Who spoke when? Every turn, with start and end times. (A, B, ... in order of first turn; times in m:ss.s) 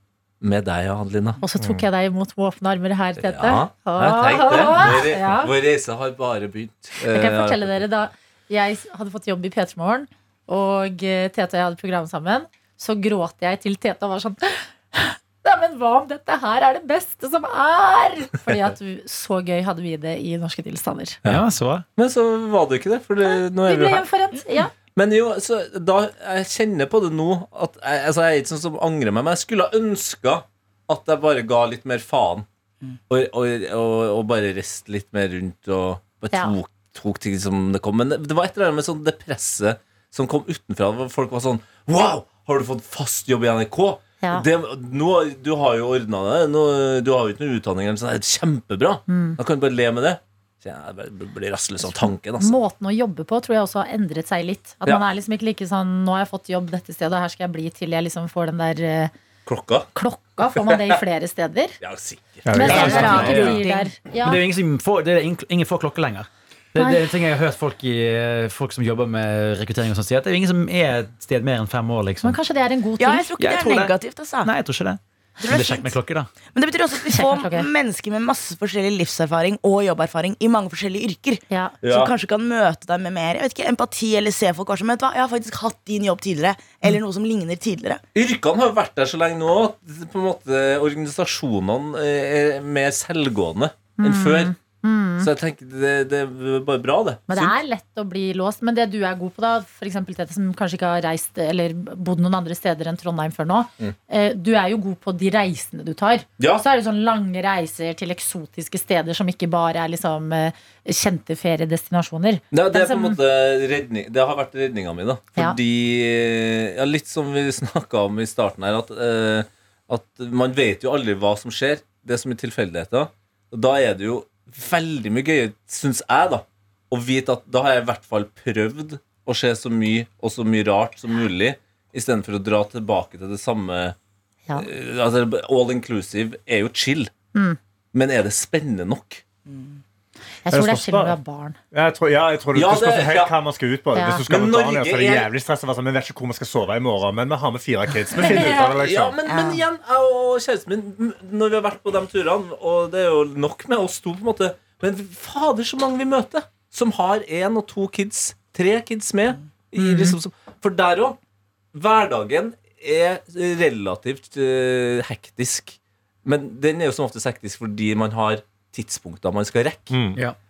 0:00.4-0:01.4 A
0:01.4-0:05.5 B
0:03.2-0:07.8 A
0:07.0-0:21.2 B
0:21.2-0:21.8 C
0:22.0-0:24.0 A
0:23.2-0:24.7 B
0:24.9-0:32.4 A
0:33.1-0:52.5 A
0:44.2-0:44.5 B
0:49.1-0:49.4 B
0:51.8-0:59.1 B
0:59.4-0:59.9 A
0:59.9-1:01.8 B
1:00.6-1:01.0 A
1:01.8-1:03.6 A
1:02.4-1:03.0 D
1:02.5-1:04.4 B
1:02.6-1:03.6 C
1:02.6-1:03.9 E
1:04.2-1:12.4 C
1:06.8-1:07.0 B
1:12.2-1:13.3 B
1:13.0-1:14.5 E
1:13.4-1:16.3 C
1:15.4-1:16.0 E
1:16.5-1:28.0 E
1:17.1-1:17.7 B
1:21.5-1:21.7 B
1:21.8-1:22.1 A
1:28.1-1:34.5 A
1:34.0-1:35.3 B
1:35.2-1:37.5 A
1:37.3-1:53.2 B
1:46.4-1:46.6 A
1:52.5-2:13.9 A
2:14.5-2:17.1 A
2:17.9-2:19.2 A
2:19.5-2:19.8 E
2:20.4-2:21.6 B
2:20.5-2:21.2 D
2:21.7-2:29.2 D
2:22.5-2:23.3 A
2:23.9-2:24.2 B
2:24.3-2:25.3 A
2:28.2-2:28.7 B
2:28.6-2:41.2 A
2:29.2-2:29.6 E
2:39.8-2:40.1 B
2:41.7-2:50.0 A
2:49.9-2:50.2 D